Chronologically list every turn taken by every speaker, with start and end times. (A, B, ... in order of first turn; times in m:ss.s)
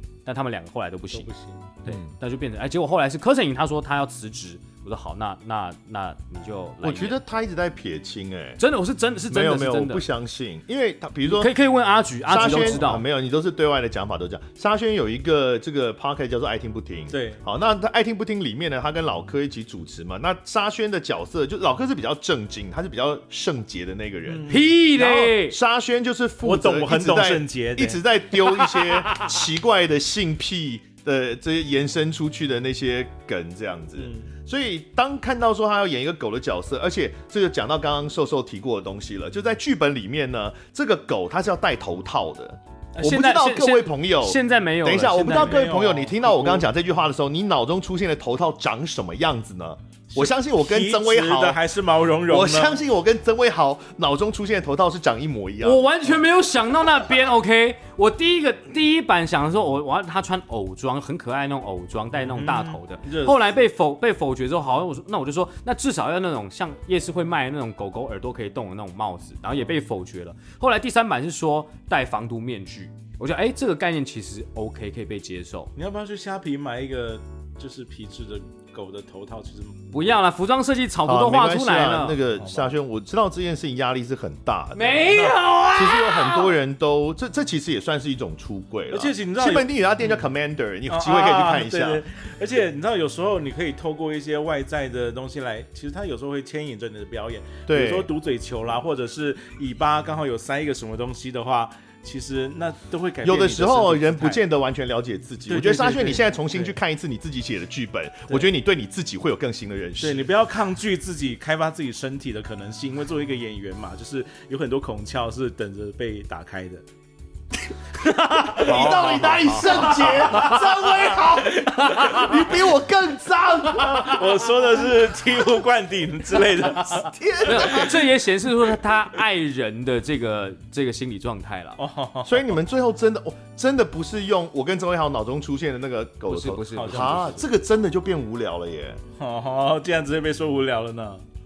0:00.2-0:01.3 A
0:01.1-0:01.7 B
0:01.8-0:07.2 A
0:06.8-0:08.6 C
0:08.6-0:10.0 A
0:09.3-0:11.5 C
0:11.3-0:13.0 A
0:12.3-0:51.6 C
0:12.4-0:12.8 B
0:17.1-0:17.4 B
0:24.3-0:24.7 B
0:24.5-0:25.6 A
0:26.4-0:28.0 B
0:28.6-0:29.3 A
0:34.0-0:34.3 B
0:43.0-0:45.6 A
0:45.1-0:46.7 B
0:50.1-0:52.8 B
0:52.3-0:55.9 C
0:55.6-1:15.7 A
1:02.2-1:03.6 B
1:15.8-1:20.0 B
1:19.9-1:22.2 A
1:21.0-1:32.0 C
1:22.4-1:22.7 B
1:24.8-1:26.5 A
1:28.9-1:30.2 B
1:30.9-1:44.4 B
1:37.7-1:38.1 C
1:43.2-1:50.3 C
1:45.5-1:46.8 B
1:50.0-1:56.8 B
1:58.3-2:00.7 A
1:58.4-2:04.4 C
1:58.5-2:02.4 B
2:01.7-2:02.4 A
2:03.8-2:07.9 B
2:06.8-2:08.1 C
2:07.4-2:11.8 A
2:11.8-2:12.6 B
2:12.2-2:19.0 C
2:16.3-2:17.4 A
2:16.7-2:17.4 B
2:19.2-2:21.2 B